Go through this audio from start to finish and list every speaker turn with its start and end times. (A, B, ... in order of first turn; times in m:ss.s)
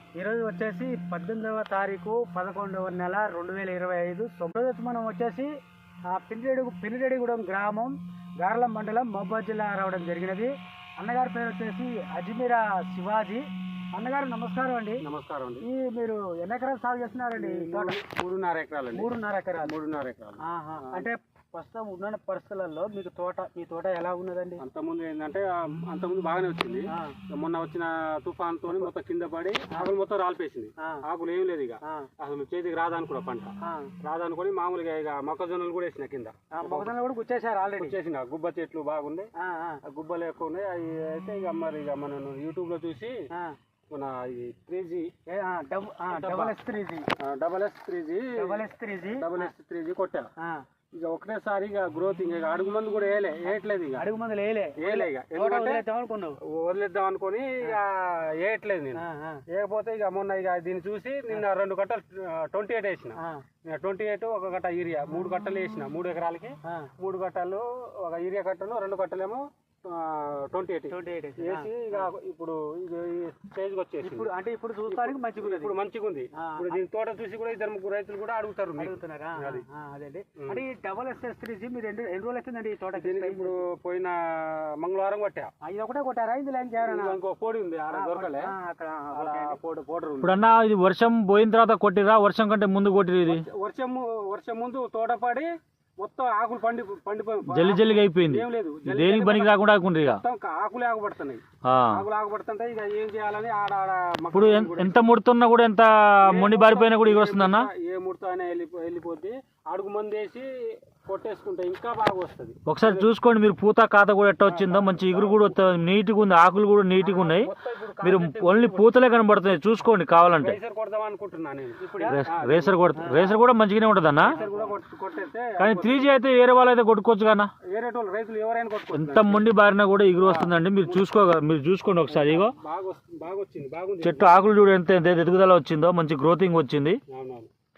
0:00.2-0:05.5 A
0:06.1-0:15.0 A
0:15.0-0:15.7 B
0:15.6-0:18.0 A
0:17.4-0:19.1 B
0:18.9-0:19.7 A
0:19.6-0:21.1 B
0:20.4-0:24.6 A
0:24.6-0:37.0 B
0:31.8-0:32.1 A
0:33.6-0:33.9 A
0:36.5-0:38.0 A
0:37.7-0:39.3 B
0:39.4-0:39.8 A
0:39.8-0:43.2 B
0:43.9-0:45.1 B
0:45.3-0:47.1 A
0:46.1-0:46.6 B
0:47.2-0:50.3 B
0:48.4-0:49.5 A
0:51.0-0:54.0 B
0:54.0-0:56.4 A
0:54.8-0:55.8 B
0:56.5-1:14.3 B
0:59.0-0:59.4 A
1:03.2-1:03.4 A
1:06.6-1:06.9 A
1:10.9-1:12.1 A
1:14.0-1:15.8 A
1:14.9-1:19.6 B
1:16.4-1:16.8 A
1:18.8-1:23.6 A
1:23.0-1:25.5 B
1:25.6-1:27.2 A
1:26.8-1:28.5 B
1:27.9-1:29.6 A
1:29.2-1:30.5 B
1:30.2-1:33.4 C
1:33.3-1:45.1 B
1:37.5-1:40.2 C
1:41.6-1:42.0 C
1:44.3-1:47.7 C
1:46.3-1:53.1 B
1:52.7-1:57.5 C
1:54.4-1:55.4 B
1:57.0-1:59.0 B
1:58.0-2:00.6 C
2:00.4-2:03.3 B
2:01.8-2:02.3 A
2:02.1-2:04.4 C
2:03.0-2:03.4 A
2:04.3-2:04.7 A
2:04.3-2:06.1 B
2:05.6-2:07.5 C
2:07.7-2:09.4 B
2:08.9-2:12.5 C
2:10.2-2:11.1 B
2:12.1-2:14.4 B
2:14.0-2:17.0 C
2:17.1-2:17.5 B